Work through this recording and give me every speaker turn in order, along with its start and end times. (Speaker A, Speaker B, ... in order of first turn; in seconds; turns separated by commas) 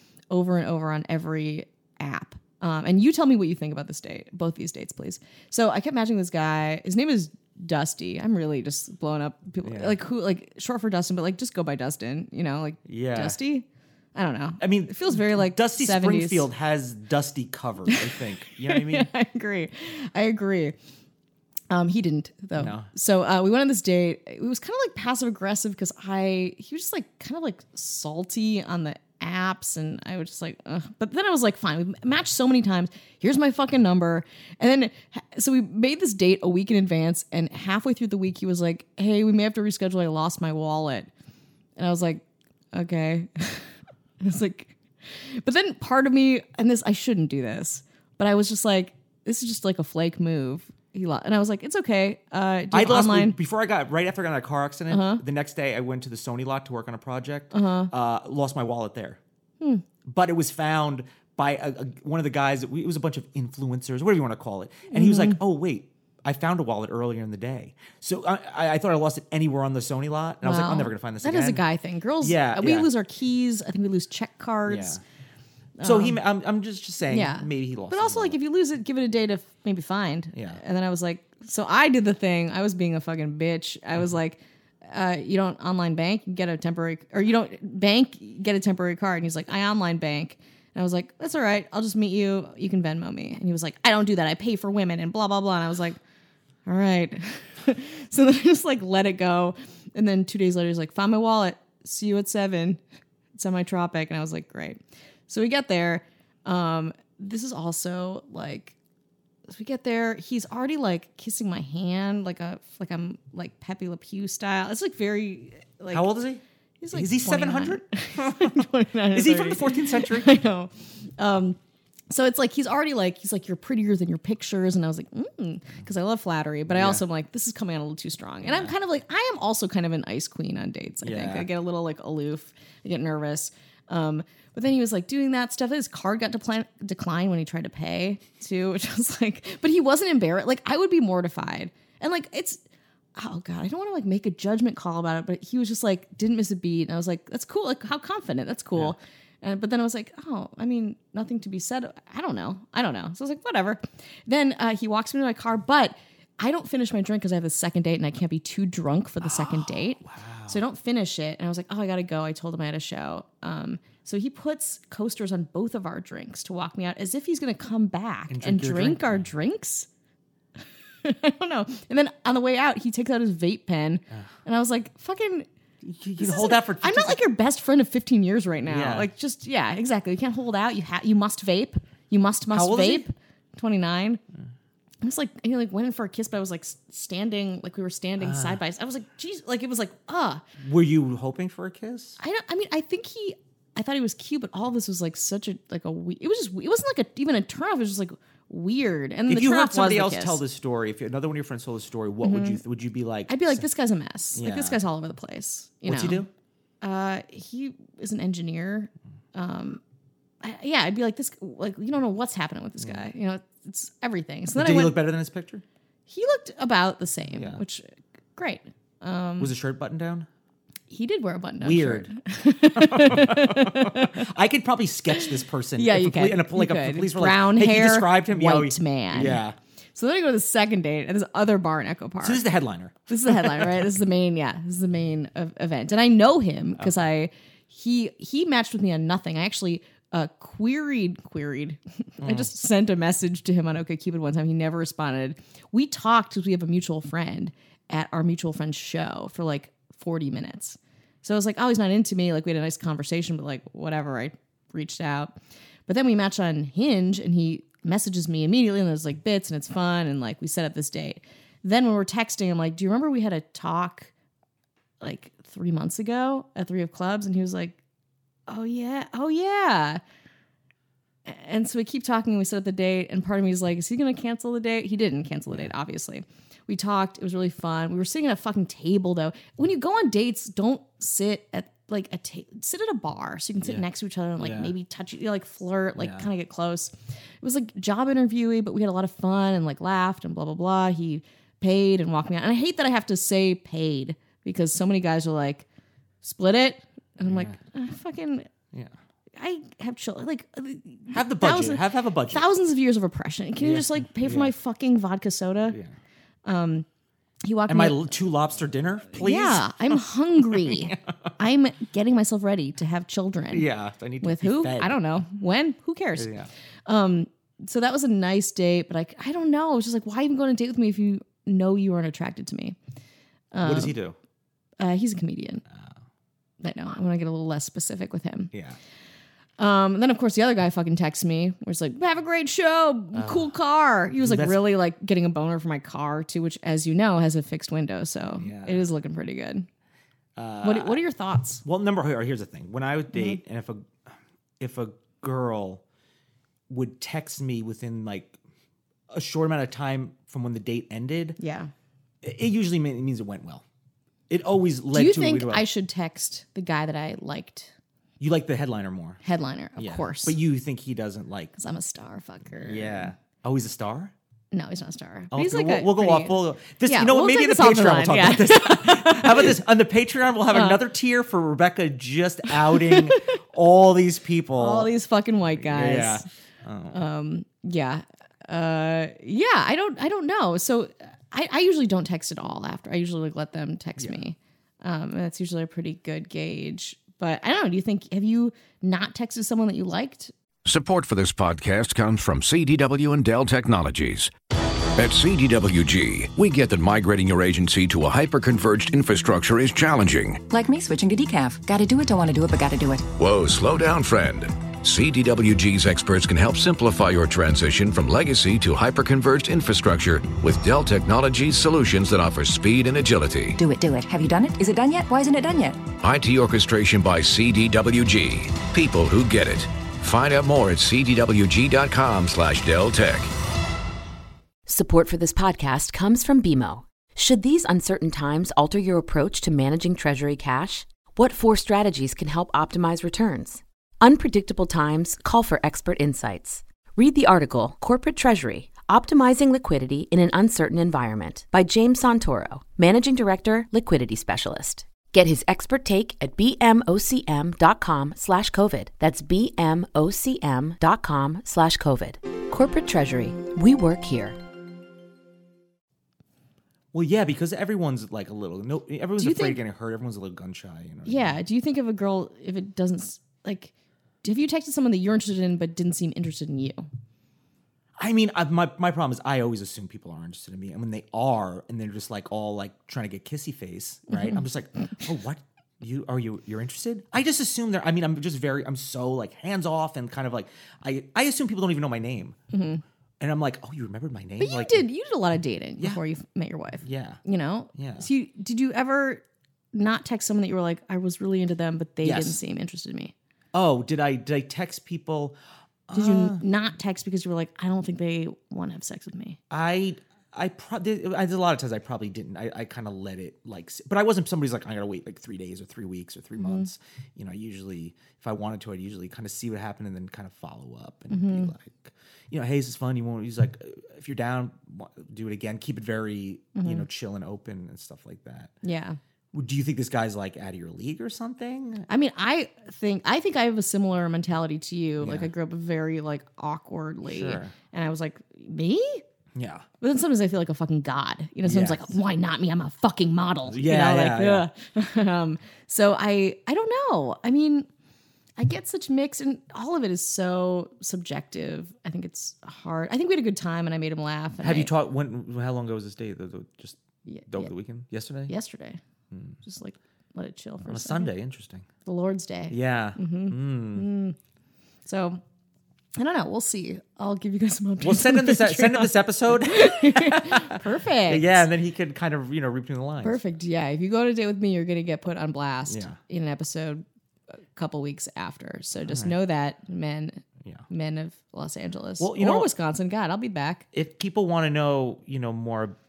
Speaker A: 0.3-16.5, Speaker B: 9.6-10.0, Speaker B: 12.8-13.4, Speaker B: 14.6-19.1, Speaker A: 17.9-20.8, Speaker A: 21.7-41.1, Speaker B: 22.5-22.9, Speaker A: 41.8-43.7, Speaker A: 44.2-53.4, Speaker B: 52.7-59.2, Speaker A: 54.9-55.2, Speaker A: 57.5-57.9, Speaker B: 60.0-71.6, Speaker A: 64.9-65.4, Speaker A: 70.4-75.0, Speaker B: 72.2-72.9, Speaker B: 74.7-75.0, Speaker A: 75.8-76.2, Speaker B: 75.8-78.4, Speaker A: 77.1-96.0, Speaker B: 80.3-80.6, Speaker A: 96.7-102.8, Speaker A: 103.3-108.8, Speaker A: 109.5-116.1, Speaker B: 115.9-120.3, Speaker A: 116.8-121.6, Speaker A: 122.1-142.6, Speaker B: 126.7-127.0, Speaker B: 128.4-128.7, Speaker B: 131.0-131.5, Speaker A: 143.1-169.9, Speaker B: 159.2-160.6, Speaker B: 168.3-169.2, Speaker A: 171.0-175.5, Speaker B: 175.8-177.2, Speaker A: 176.2-184.2, Speaker B: 178.7-179.1, Speaker B: 182.5-183.1, Speaker A: 185.0-190.4, Speaker B: 188.2-188.6, Speaker B: 190.6-192.2, Speaker A: 192.2-200.4, Speaker B: 199.3-203.7, Speaker A: 202.2-202.6, Speaker A: 203.3-206.2, Speaker B: 204.3-204.8, Speaker B: 205.8-206.3, Speaker A: 206.8-209.8, Speaker A: 210.4-215.0, Speaker B: 214.5-215.6, Speaker A: 216.1-219.5, Speaker B: 217.3-217.6, Speaker B: 219.4-220.3, Speaker A: 220.9-224.3, Speaker B: 221.6-222.1, Speaker B: 222.7-229.6, Speaker A: 225.8-229.4, Speaker A: 229.9-232.4, Speaker B: 232.2-233.9, Speaker A: 233.1-264.1, Speaker B: 242.2-242.5, Speaker A: 265.0-267.8, Speaker A: 268.5-270.0, Speaker A: 271.2-295.6, Speaker B: 284.4-284.7, Speaker B: 286.0-286.3, Speaker A: 296.2-298.5, Speaker B: 297.2-297.6, Speaker A: 299.4-305.8, Speaker B: 301.1-302.4, Speaker B: 303.6-304.5, Speaker A: 306.4-306.9, Speaker A: 307.4-308.1, Speaker B: 307.7-310.9, Speaker A: 309.2-313.6, Speaker B: 313.5-315.0, Speaker A: 314.2-316.3, Speaker B: 316.1-316.5, Speaker A: 316.9-322.8, Speaker A: 323.5-323.9, Speaker B: 323.6-324.2, Speaker A: 324.8-325.6, Speaker B: 325.7-325.9, Speaker A: 326.6-328.5, Speaker B: 328.5-328.8, Speaker A: 329.6-339.7, Speaker B: 333.1-333.5, Speaker B: 334.2-334.6, Speaker B: 338.4-338.8, Speaker B: 340.4-341.0, Speaker A: 340.6-341.6, Speaker B: 341.6-344.1, Speaker A: 343.1-343.4, Speaker B: 344.6-345.8, Speaker B: 346.7-348.4, Speaker B: 349.1-351.4, Speaker A: 351.4-351.7, Speaker B: 352.2-353.6, Speaker B: 354.3-355.6, Speaker A: 354.9-357.7, Speaker B: 358.2-359.2, Speaker A: 359.2-360.4, Speaker B: 359.8-361.5, Speaker A: 361.6-363.1, Speaker B: 362.6-364.1, Speaker A: 364.5-369.6, Speaker B: 365.3-374.9, Speaker A: 370.5-370.8, Speaker A: 372.6-373.2, Speaker A: 374.6-376.2, Speaker B: 375.6-377.0, Speaker A: 376.9-390.3, Speaker C: 390.6-394.3, Speaker C: 394.9-400.4, Speaker D: 400.5-403.1, Speaker C: 403.1-413.6, Speaker D: 413.6-415.8, Speaker C: 416.0-423.3, Speaker E: 424.7-454.4, Speaker B: 456.9-461.4, Speaker A: 459.2-459.6, Speaker A: 461.1-466.9, Speaker B: 468.0-482.4, Speaker A: 474.1-474.4, Speaker A: 482.5-482.8, Speaker B: 483.2-484.8, Speaker A: 484.4-489.2, Speaker B: 486.8-487.2, Speaker B: 487.7-488.1, Speaker A: 489.7-493.1, Speaker B: 492.0-492.4, Speaker B: 493.5-495.4, Speaker B: 495.9-496.4, Speaker A: 495.9-499.4, Speaker B: 499.5-518.5, Speaker A: 506.4-506.7, Speaker A: 511.1-511.5, Speaker A: 516.5-516.9, Speaker A: 518.6-519.0, Speaker B: 519.3-521.9, Speaker A: 521.9-529.0, Speaker B: 525.0-525.3, Speaker B: 527.0-527.5, Speaker B: 529.3-529.6, Speaker A: 529.8-537.7, Speaker B: 531.4-531.9, Speaker B: 533.5-534.5, Speaker A: 538.4-544.7, Speaker B: 544.4-548.3, Speaker A: 547.0-547.5, Speaker A: 548.3-548.8, Speaker B: 549.1-549.4, Speaker A: 549.4-551.1, Speaker B: 550.6-551.7, Speaker A: 551.8-554.1, Speaker B: 552.5-553.9, Speaker A: 554.8-555.2, Speaker A: 555.9-561.5, Speaker B: 557.8-563.2, Speaker A: 563.0-566.8, Speaker B: 565.7-566.0, Speaker A: 567.5-573.6, Speaker B: 568.9-569.1, Speaker B: 572.0-572.5, Speaker B: 573.7-575.8